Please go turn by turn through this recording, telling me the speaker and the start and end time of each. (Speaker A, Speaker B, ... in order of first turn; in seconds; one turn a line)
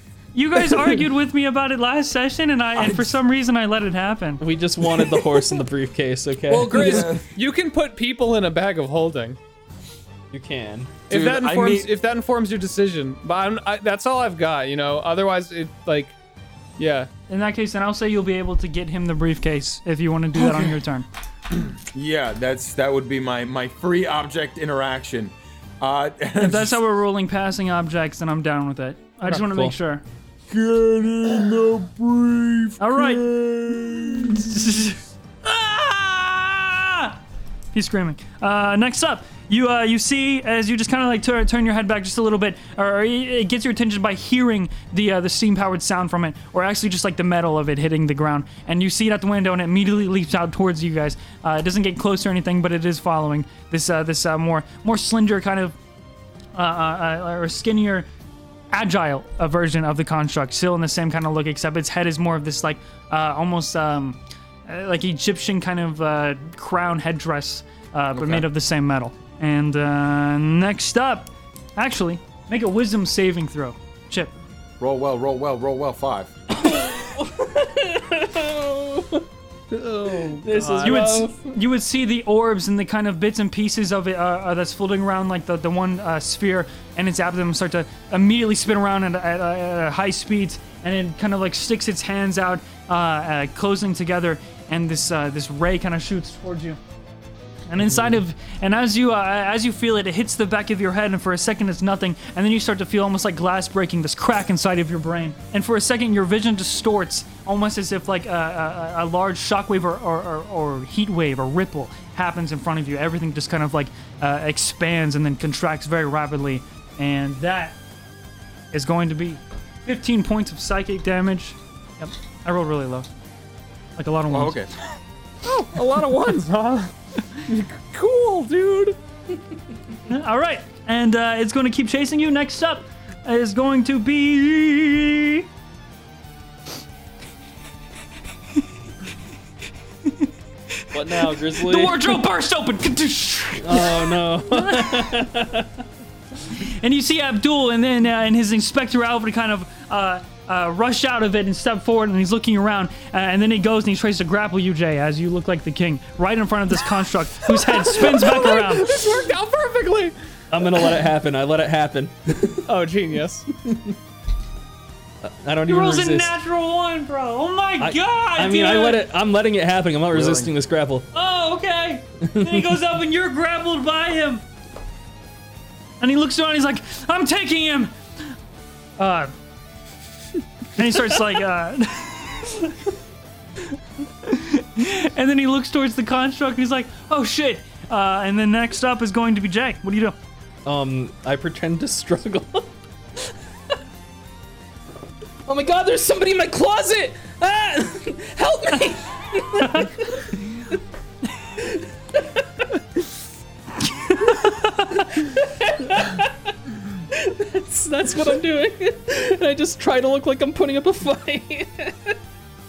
Speaker A: 0.3-4.4
Speaker B: 4.4-7.1
Speaker C: 6.5-7.2
Speaker D: 6.5-9.4
Speaker B: 10.3-10.9
Speaker C: 11.1-11.9
Speaker D: 11.1-16.1
Speaker D: 16.8-17.1
Speaker A: 17.3-21.1
Speaker C: 20.4-20.8
Speaker C: 21.8-26.8
Speaker A: 26.4-30.0
Speaker B: 29.3-29.7
Speaker C: 30.5-34.7
Speaker A: 32.8-33.2
Speaker A: 34.2-37.2
Speaker A: 37.7-55.8
Speaker A: 56.5-58.0
Speaker A: 58.7-74.3
Speaker C: 68.2-68.5
Speaker C: 74.8-76.3
Speaker B: 76.5-79.2
Speaker D: 79.7-81.2
Speaker B: 80.2-81.3
Speaker A: 80.8-96.8
Speaker A: 97.7-117.8
Speaker B: 97.8-98.2
Speaker A: 118.7-123.1
Speaker A: 124.0-124.6
Speaker C: 124.3-124.7
Speaker D: 125.4-126.9
Speaker D: 127.5-128.9
Speaker A: 130.1-135.4
Speaker A: 140.0-145.2
Speaker B: 140.9-142.2
Speaker B: 143.6-145.8
Speaker A: 146.6-159.1
Speaker D: 157.5-160.1
Speaker B: 160.5-162.7
Speaker D: 162.6-163.4
Speaker B: 163.6-163.9
Speaker B: 165.2-166.3
Speaker A: 165.7-169.0
Speaker B: 167.8-171.1
Speaker C: 170.1-170.5
Speaker A: 171.1-174.4
Speaker B: 172.3-172.6
Speaker A: 176.0-177.9
Speaker A: 179.0-179.3
Speaker A: 180.8-182.8
Speaker A: 184.2-190.2
Speaker B: 190.6-193.8
Speaker B: 195.4-200.8
Speaker A: 199.6-199.9
Speaker B: 201.6-202.7
Speaker A: 203.8-205.1
Speaker B: 205.1-206.5
Speaker B: 207.1-212.2